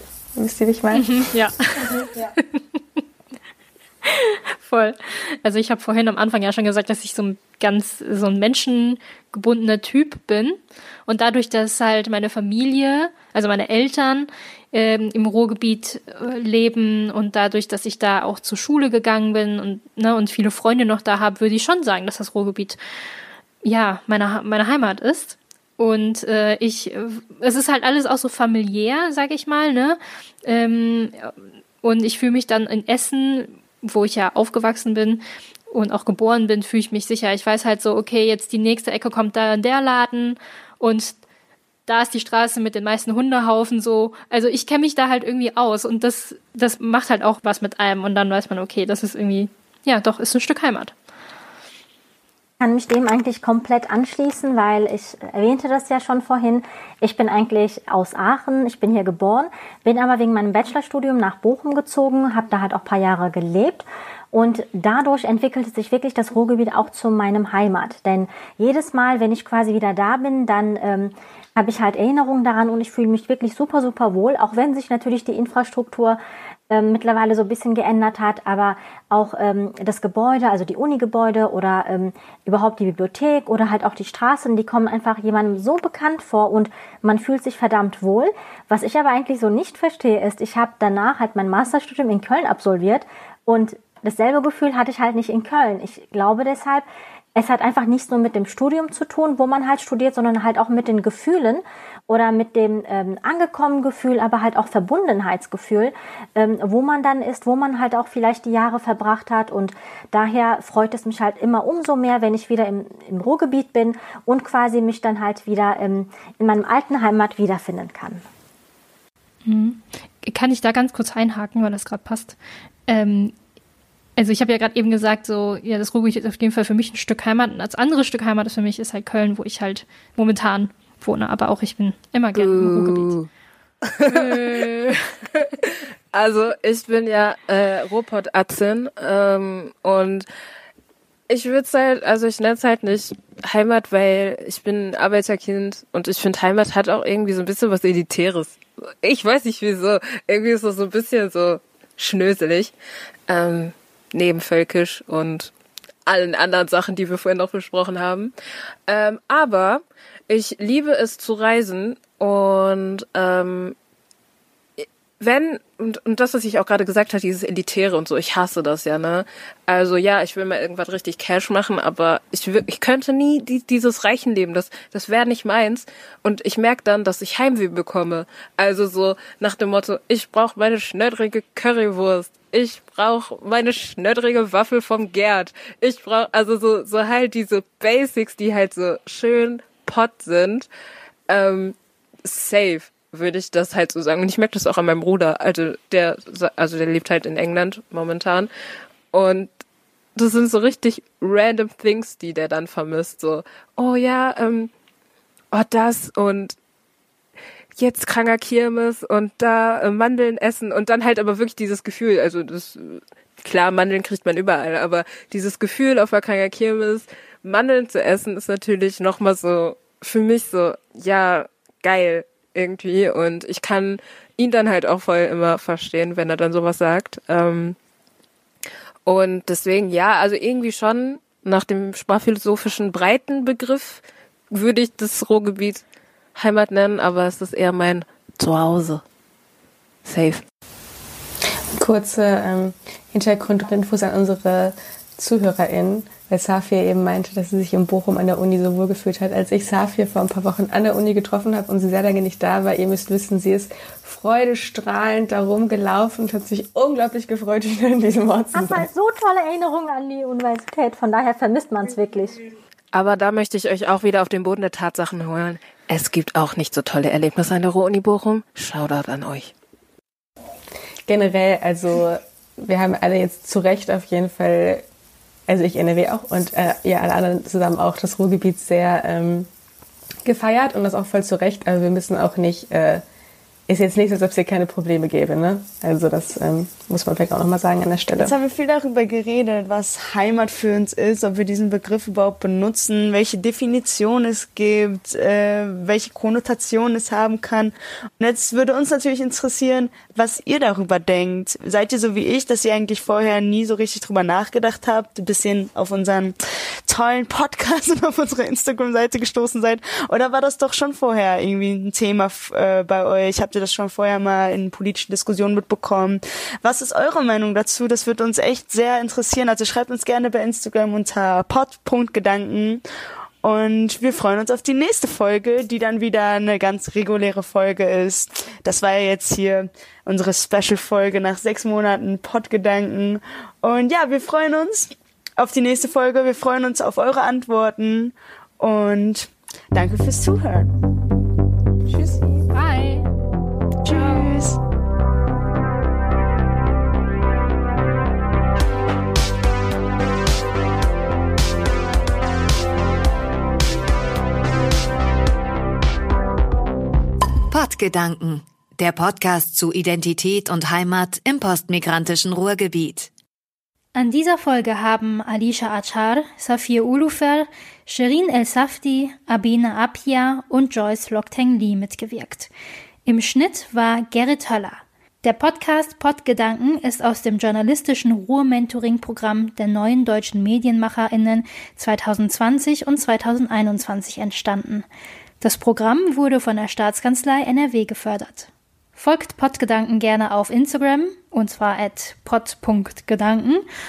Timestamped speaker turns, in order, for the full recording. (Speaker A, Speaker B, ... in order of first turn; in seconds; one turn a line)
Speaker A: 0.3-1.3
Speaker B: 0.9-2.8
Speaker B: 4.0-22.8
Speaker B: 23.6-31.3
Speaker B: 31.8-41.2
Speaker B: 41.9-50.9
Speaker C: 52.6-76.2
Speaker C: 76.7-118.2
Speaker B: 119.4-123.3
Speaker B: 124.2-133.1
Speaker D: 132.3-133.3
Speaker D: 133.8-140.2
Speaker B: 134.1-135.0
Speaker D: 141.3-152.7
Speaker D: 153.3-155.5
Speaker D: 156.1-158.3
Speaker D: 158.9-163.7
Speaker D: 164.8-190.7
Speaker D: 191.3-198.5
Speaker D: 199.1-199.5
Speaker D: 200.2-204.7
Speaker D: 205.5-206.5
Speaker D: 207.8-227.8
Speaker D: 229.1-235.8
Speaker D: 236.3-239.0
Speaker D: 240.1-240.4
Speaker A: 241.7-258.9
Speaker C: 258.5-262.4
Speaker D: 262.9-269.5
Speaker A: 271.1-274.8
Speaker A: 275.5-279.5
Speaker A: 280.2-283.0
Speaker A: 283.7-288.3
Speaker E: 288.2-306.3
Speaker E: 306.9-322.8
Speaker E: 323.4-340.7
Speaker B: 341.9-343.1
Speaker E: 343.8-344.6
Speaker B: 343.9-344.3
Speaker F: 357.5-363.1
Speaker G: 363.9-372.5
Speaker G: 373.1-384.9
Speaker G: 385.4-393.6